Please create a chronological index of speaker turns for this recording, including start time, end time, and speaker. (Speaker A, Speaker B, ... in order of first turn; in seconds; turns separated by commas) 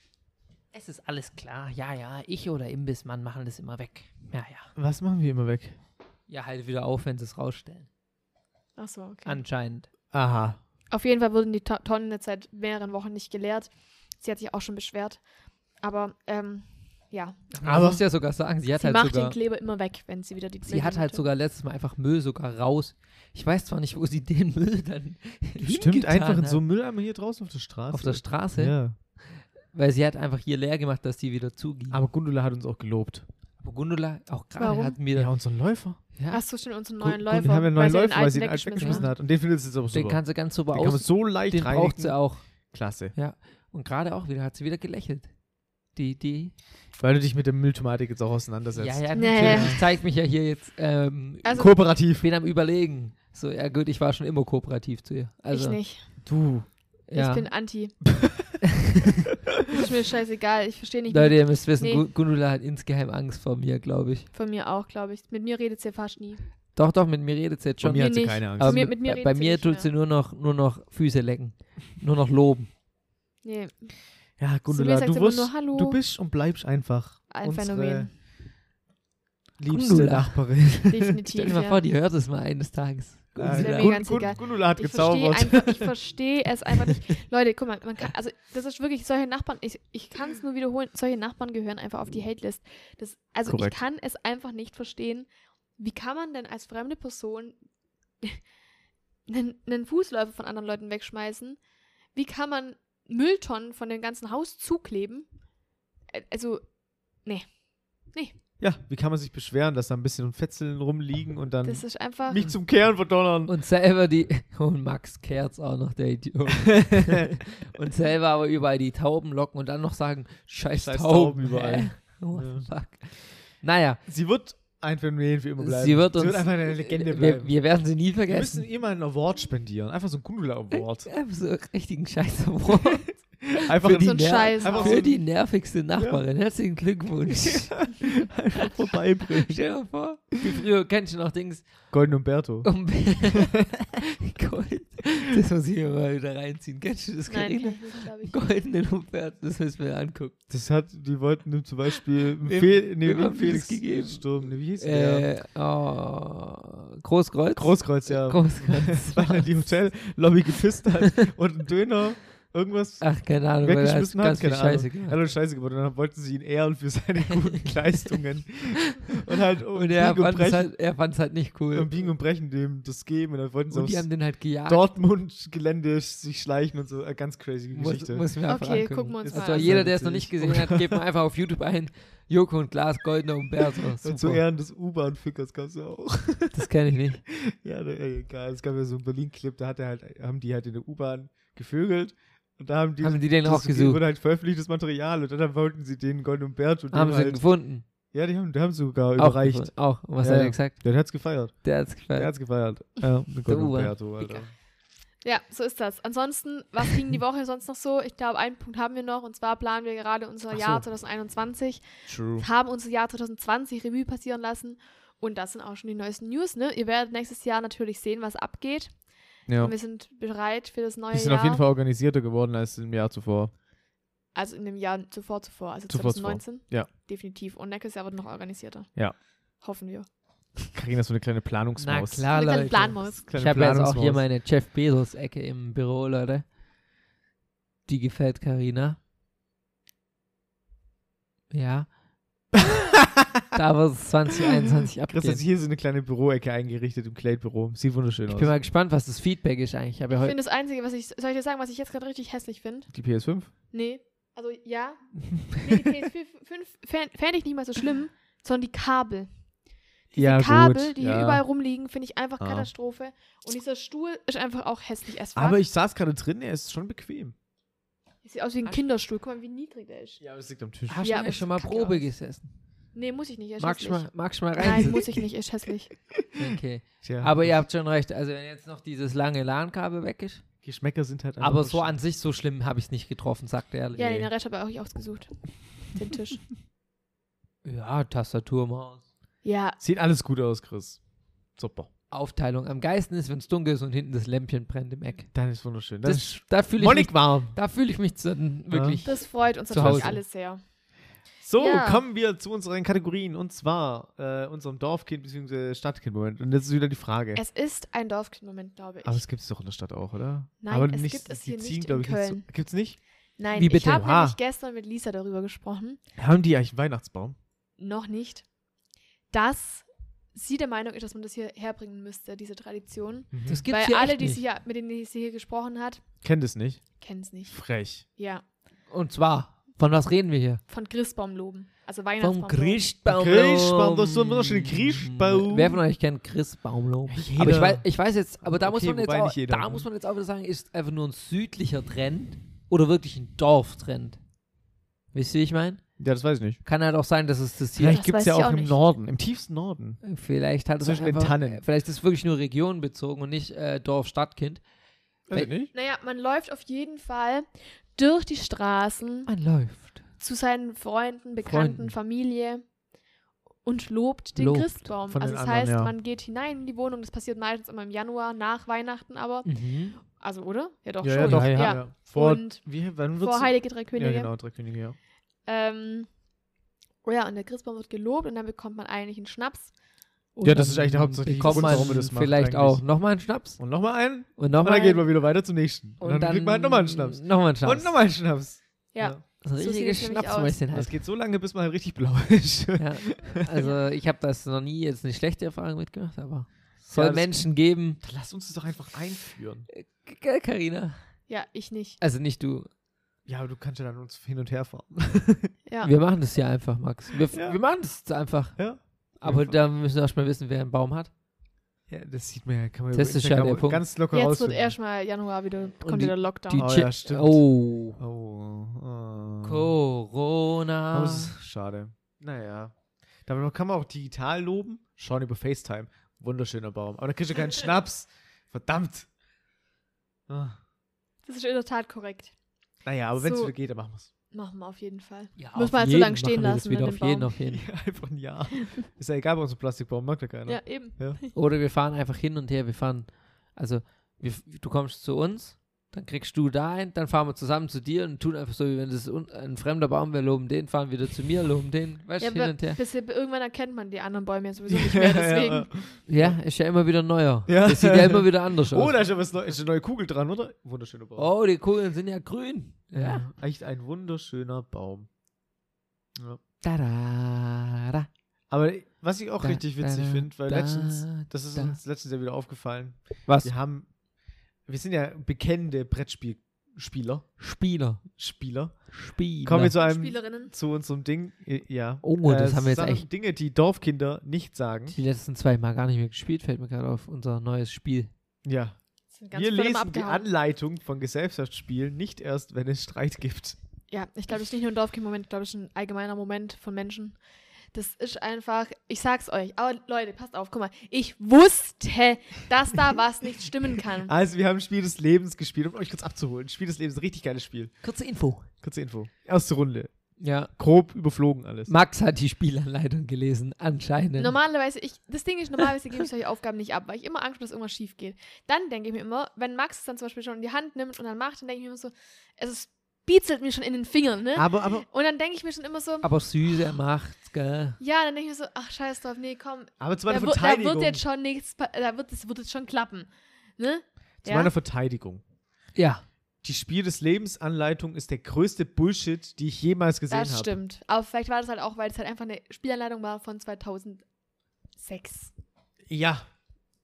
Speaker A: 0.7-4.7, Speaker B: 4.8-5.8, Speaker A: 6.3-7.9, Speaker C: 8.8-9.4, Speaker A: 9.2-9.9, Speaker B: 10.1-10.6, Speaker C: 10.9-15.2, Speaker C: 15.8-17.4, Speaker A: 17.5-19.4, Speaker B: 17.6-18.0, Speaker C: 18.8-21.2, Speaker A: 20.6-26.6, Speaker B: 25.6-28.9, Speaker A: 27.9-32.0, Speaker B: 31.9-33.2, Speaker A: 33.6-35.3, Speaker C: 34.6-35.0, Speaker B: 35.1-36.0, Speaker A: 36.1-36.4, Speaker C: 36.3-39.0, Speaker B: 37.0-42.2, Speaker A: 38.8-39.1, Speaker A: 39.9-42.5, Speaker B: 42.7-43.1, Speaker A: 43.1-45.3, Speaker A: 45.9-46.5, Speaker B: 47.0-49.8, Speaker A: 48.8-55.8, Speaker C: 49.1-49.8, Speaker C: 51.4-51.7, Speaker B: 51.5-52.2, Speaker C: 55.5-56.1, Speaker B: 56.2-56.7, Speaker A: 57.1-57.5, Speaker C: 57.1-57.9, Speaker B: 58.2-58.6, Speaker A: 58.6-59.2, Speaker C: 59.7-62.0, Speaker A: 61.1-64.3, Speaker C: 64.3-66.4, Speaker A: 66.8-72.7, Speaker B: 67.8-68.9, Speaker C: 67.9-69.9, Speaker C: 73.4-73.9, Speaker B: 74.4-78.1, Speaker C: 74.7-76.0, Speaker C: 77.3-78.1, Speaker B: 79.6-81.2, Speaker A: 79.7-80.5, Speaker C: 80.9-81.8, Speaker A: 81.3-84.0, Speaker B: 83.4-85.9, Speaker C: 83.5-97.6, Speaker B: 93.5-93.8, Speaker C: 99.3-101.6, Speaker C: 102.1-105.3, Speaker C: 106.1-108.3, Speaker B: 108.6-113.5, Speaker C: 111.6-112.4, Speaker A: 113.5-124.0, Speaker B: 116.8-117.3, Speaker B: 120.7-122.7, Speaker B: 124.0-127.6, Speaker A: 125.6-128.7, Speaker B: 128.3-131.1, Speaker A: 131.0-137.9, Speaker B: 133.6-135.2, Speaker C: 133.8-135.0, Speaker B: 135.9-136.2, Speaker B: 137.4-139.8, Speaker A: 139.3-141.8, Speaker B: 140.3-140.6, Speaker B: 141.9-142.7, Speaker A: 142.6-150.3, Speaker C: 147.3-148.3, Speaker B: 150.5-155.3, Speaker A: 152.4-159.7, Speaker B: 157.6-170.7, Speaker A: 163.0-165.2, Speaker A: 169.7-171.9, Speaker B: 171.7-178.2, Speaker A: 173.7-174.8, Speaker A: 177.7-184.4, Speaker C: 178.5-179.8, Speaker B: 179.3-181.0, Speaker B: 184.0-186.7, Speaker A: 186.5-187.2, Speaker B: 187.3-197.4, Speaker A: 193.0-194.0, Speaker A: 196.9-197.8, Speaker B: 198.1-204.5, Speaker A: 199.2-201.0, Speaker A: 201.6-202.3, Speaker A: 203.4-204.4, Speaker C: 205.2-221.6, Speaker B: 210.5-210.8, Speaker B: 212.1-212.4, Speaker B: 219.5-219.7, Speaker B: 221.1-223.5, Speaker C: 224.3-230.7, Speaker B: 225.9-226.9, Speaker B: 230.7-232.3, Speaker A: 231.8-236.4, Speaker C: 232.3-233.2, Speaker B: 233.2-234.2, Speaker A: 237.9-239.0, Speaker A: 241.5-241.9, Speaker B: 242.6-243.4, Speaker A: 243.5-245.4, Speaker B: 244.8-248.5, Speaker A: 248.3-250.3, Speaker C: 250.2-252.9, Speaker B: 252.9-253.5, Speaker C: 253.7-259.3, Speaker B: 255.3-255.7, Speaker C: 260.1-265.6, Speaker B: 260.1-261.4, Speaker B: 262.4-262.7, Speaker B: 265.3-267.3, Speaker C: 268.2-270.2, Speaker B: 270.2-271.2, Speaker A: 270.9-272.5, Speaker C: 271.0-272.1, Speaker C: 272.9-275.9, Speaker A: 273.6-275.1, Speaker B: 276.1-277.6, Speaker A: 276.4-280.4, Speaker B: 280.6-282.0, Speaker A: 281.4-284.3, Speaker C: 283.9-286.4, Speaker A: 287.6-289.0, Speaker C: 289.4-289.8, Speaker B: 289.8-291.0, Speaker B: 291.6-291.9, Speaker A: 292.1-295.3, Speaker B: 295.3-297.5, Speaker A: 296.0-300.2, Speaker B: 298.7-299.0, Speaker C: 299.0-300.6, Speaker B: 299.7-300.2, Speaker B: 301.4-307.4, Speaker C: 301.6-302.0, Speaker C: 307.3-309.2, Speaker B: 309.0-313.0, Speaker C: 310.6-312.4, Speaker C: 313.4-316.0, Speaker A: 313.5-314.0, Speaker B: 313.9-314.4, Speaker B: 316.2-317.4, Speaker C: 317.8-318.4, Speaker C: 319.3-326.0, Speaker B: 323.3-323.6, Speaker A: 323.5-324.4, Speaker B: 326.2-326.8, Speaker C: 327.0-327.6, Speaker B: 327.5-328.0, Speaker C: 328.1-328.4, Speaker A: 328.9-330.6, Speaker C: 330.7-332.8, Speaker A: 332.2-344.2, Speaker B: 333.1-335.8, Speaker B: 337.1-337.8, Speaker B: 338.4-339.9, Speaker A: 345.1-345.8, Speaker B: 346.0-346.6, Speaker A: 346.6-348.0, Speaker B: 347.8-350.0, Speaker C: 347.8-348.8, Speaker A: 350.0-354.6, Speaker B: 350.8-351.6, Speaker B: 355.3-355.7, Speaker C: 355.7-359.3, Speaker A: 359.2-360.0, Speaker C: 360.2-362.6, Speaker A: 361.4-361.9, Speaker C: 363.6-374.3, Speaker A: 364.4-364.9, Speaker B: 365.1-365.9, Speaker A: 369.4-370.0, Speaker B: 371.0-375.0, Speaker A: 371.2-371.8, Speaker C: 375.4-376.1, Speaker C: 377.0-379.7, Speaker A: 380.3-383.6, Speaker B: 380.4-382.8, Speaker B: 383.6-389.2, Speaker A: 384.4-385.0, Speaker A: 386.0-387.9, Speaker C: 388.9-390.6, Speaker A: 389.4-390.9, Speaker B: 390.7-393.7, Speaker A: 392.8-398.0, Speaker B: 396.9-397.5, Speaker B: 398.0-399.7, Speaker A: 399.7-400.9, Speaker C: 401.3-402.0, Speaker A: 402.0-402.7, Speaker B: 403.2-405.5, Speaker C: 405.7-405.9, Speaker A: 405.8-411.1, Speaker B: 407.3-407.6, Speaker B: 408.6-409.6, Speaker B: 411.9-414.7, Speaker A: 412.9-413.8, Speaker C: 414.1-416.7, Speaker A: 415.8-418.0, Speaker B: 416.6-419.7, Speaker A: 419.4-421.3, Speaker B: 420.9-422.7, Speaker B: 423.2-429.1, Speaker B: 430.3-430.6, Speaker C: 431.2-432.3, Speaker B: 432.8-434.1, Speaker C: 433.2-433.5, Speaker C: 434.3-437.3, Speaker A: 435.4-437.6, Speaker B: 437.5-441.2, Speaker C: 440.5-441.3, Speaker A: 441.3-452.8, Speaker C: 452.2-455.7, Speaker B: 454.7-456.4, Speaker A: 456.1-458.9, Speaker B: 457.5-461.3, Speaker A: 461.1-463.3, Speaker B: 462.9-465.1, Speaker A: 466.6-468.1, Speaker B: 468.5-473.9, Speaker A: 469.4-471.8, Speaker A: 473.3-473.5, Speaker B: 474.7-477.3, Speaker A: 477.4-478.1, Speaker B: 478.1-478.9, Speaker A: 478.9-479.7, Speaker B: 479.4-484.9, Speaker C: 479.8-480.5, Speaker A: 482.0-483.0, Speaker A: 484.9-488.1, Speaker B: 488.4-488.8, Speaker C: 489.1-490.3, Speaker B: 489.3-493.6, Speaker C: 493.9-497.2, Speaker C: 497.7-504.1, Speaker B: 504.0-507.7, Speaker A: 507.8-508.5, Speaker B: 508.6-509.9, Speaker A: 510.2-510.5, Speaker B: 510.5-511.7, Speaker A: 511.7-514.4, Speaker C: 514.2-526.1, Speaker B: 524.3-524.9, Speaker A: 526.0-527.8, Speaker C: 527.8-534.5, Speaker B: 529.8-531.0, Speaker B: 534.2-535.2, Speaker A: 535.7-536.0, Speaker B: 536.4-540.5, Speaker C: 540.1-544.0, Speaker C: 544.8-545.3, Speaker B: 545.9-546.2